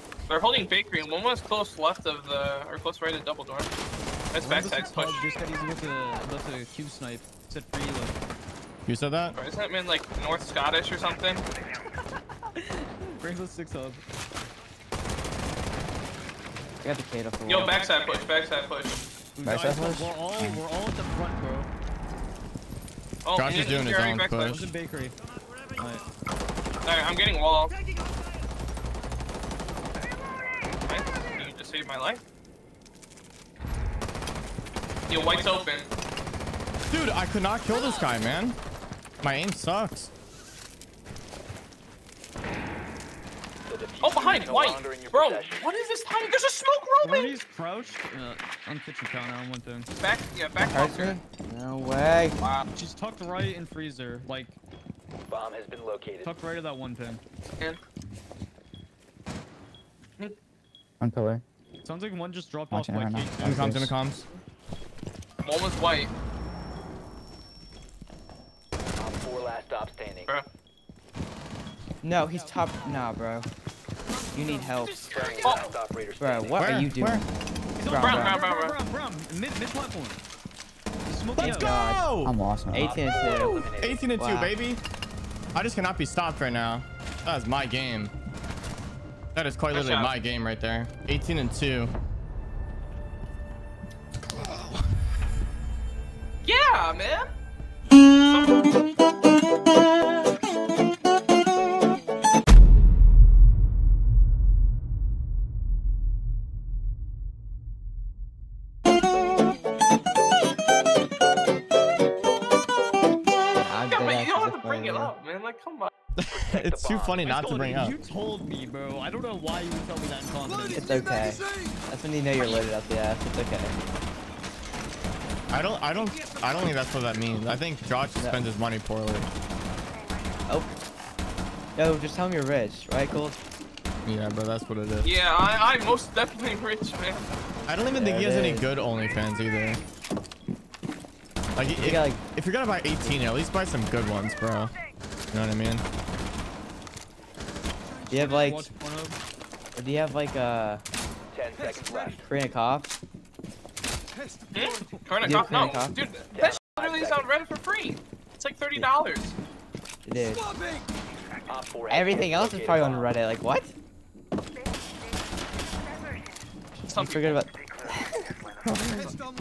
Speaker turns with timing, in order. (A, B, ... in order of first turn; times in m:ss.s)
0:00.3-0:03.7 A
0:04.3-0:05.2 A
0:04.4-0:08.2 B
0:08.9-0:09.4 C
0:09.4-0:11.4 A
0:12.5-0:14.0 B
0:16.8-0:17.8 D
0:17.5-0:19.0 A
0:19.4-0:21.7 B
0:19.4-0:20.6 E
0:23.2-0:24.6 A
0:23.4-0:24.7 C
0:24.5-0:25.2 B
0:25.8-0:26.0 B
0:26.8-0:27.8 A
0:30.9-0:32.2 A
0:35.1-0:35.9 A
0:36.9-0:38.6 C
0:39.2-0:40.1 C
0:43.7-0:45.6 F
0:44.0-0:47.4 A
0:47.0-0:49.9 B
0:50.0-0:51.2 A
0:50.6-0:52.4 D
0:52.4-0:52.7 A
0:52.7-0:54.6 B
0:55.3-0:56.3 F
0:56.2-0:57.2 B
1:01.0-1:01.4 E
1:01.8-1:03.7 B
1:02.7-1:04.0 E
1:03.4-1:04.3 C
1:05.4-1:06.1 A
1:09.0-1:10.3 F
1:12.0-1:13.5 D
1:14.3-1:15.1 D
1:15.1-1:16.7 F
1:15.4-1:15.7 A
1:16.2-1:17.2 D
1:16.6-1:17.2 C
1:17.8-1:20.2 B
1:17.8-1:18.4 D
1:18.0-1:18.8 A
1:21.1-1:21.7 B
1:21.4-1:22.1 D
1:21.4-1:22.3 C
1:22.2-1:22.9 E
1:22.7-1:24.6 D
1:22.8-1:24.1 F
1:23.8-1:24.8 C
1:25.6-1:28.1 C
1:29.3-1:31.9 C
1:29.7-1:30.1 A
1:36.4-1:37.3 A
1:38.2-1:38.6 A
1:53.5-1:55.1 D
1:53.9-1:55.9 A
1:56.2-1:58.0 C
1:56.3-1:57.4 F
1:57.2-2:00.9 B
2:00.7-2:03.8 D
2:02.4-2:02.6 A
2:05.5-2:09.3 C
2:08.2-2:08.4 D
2:10.5-2:10.8 D
2:11.8-2:13.4 D
2:14.0-2:15.1 C
2:15.0-2:17.2 A
2:17.7-2:19.8 C
2:17.9-2:18.7 D
2:21.6-2:24.7 C
2:21.8-2:22.2 D
2:25.3-2:25.8 C
2:28.1-2:28.7 D
2:28.1-2:29.2 B
2:29.8-2:30.8 D
2:31.3-2:32.2 F
2:32.2-2:33.0 D
2:34.5-2:39.4 A
2:35.2-2:36.0 D
2:36.3-2:37.3 F
2:40.1-2:40.5 D
2:41.5-2:43.1 F
2:41.9-2:43.7 D
2:46.9-2:47.4 A
2:46.9-2:49.2 D